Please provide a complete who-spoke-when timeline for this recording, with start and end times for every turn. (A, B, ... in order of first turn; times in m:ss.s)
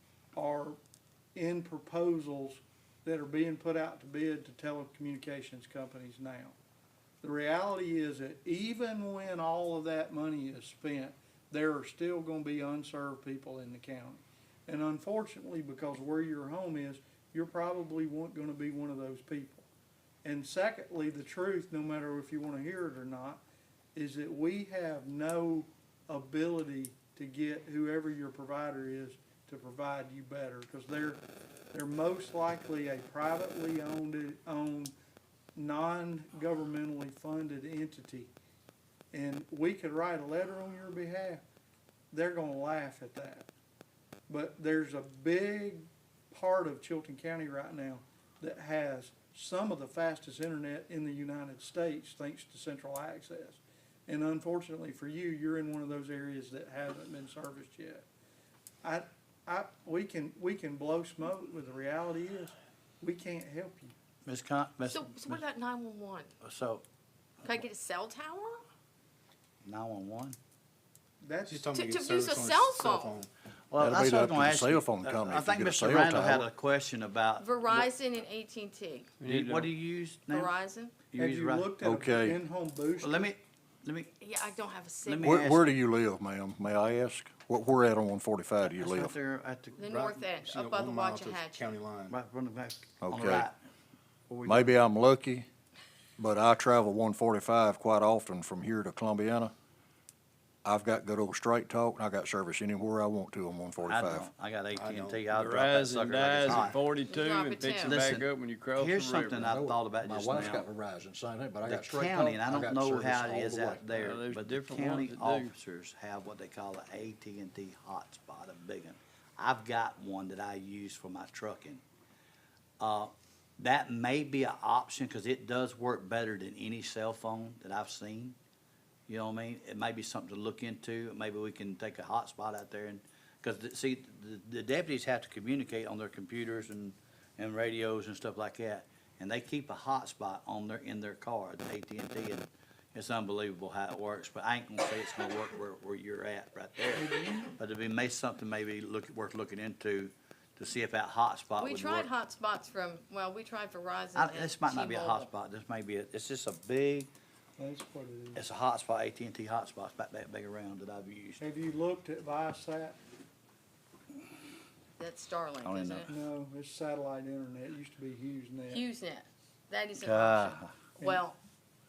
0:00.4-0:00.8 A
0:01.4-0:06.6 A
0:07.2-0:19.7 A
0:20.2-0:23.4 A
0:24.0-0:34.9 A
0:35.6-0:38.3 A
0:39.1-0:41.4 A
0:42.1-0:43.5 A
0:44.3-0:58.1 A
0:58.8-1:03.9 A
1:04.3-1:05.4 B
1:04.9-1:06.3 C
1:06.4-1:06.8 B
1:07.4-1:08.6 C
1:09.6-1:10.4 B
1:11.2-1:11.8 A
1:11.5-1:13.3 D
1:11.7-1:13.2 C
1:13.7-1:17.9 B
1:13.8-1:16.5 E
1:17.4-1:19.2 C
1:19.2-1:19.7 F
1:19.2-1:20.5 B
1:20.3-1:21.0 C
1:21.1-1:21.7 B
1:21.1-1:23.3 A
1:21.8-1:22.4 E
1:23.0-1:24.1 B
1:24.2-1:25.5 C
1:25.0-1:25.6 B
1:25.2-1:29.2 E
1:28.6-1:29.8 B
1:29.8-1:31.7 C
1:29.9-1:32.2 D
1:32.1-1:33.6 B
1:33.0-1:33.5 E
1:34.3-1:34.7 B
1:34.5-1:35.5 E
1:36.2-1:39.5 E
1:40.6-1:44.3 E
1:43.8-1:46.8 B
1:44.8-1:45.3 D
1:45.4-1:49.5 F
1:46.4-1:46.8 D
1:47.1-1:48.0 C
1:47.8-1:50.7 B
1:49.4-1:53.9 E
1:51.7-2:01.8 B
1:53.9-1:55.5 F
2:02.8-2:08.4 B
2:09.1-2:32.1 B
2:27.0-2:27.5 A
2:31.6-2:35.3 C
2:34.2-2:37.1 B
2:37.6-2:38.4 A
2:38.4-2:41.4 B
2:41.4-2:43.0 A
2:45.0-2:46.1 C
2:45.6-2:46.1 B
2:46.1-2:48.8 A
2:48.7-2:51.4 C
2:50.0-2:50.7 B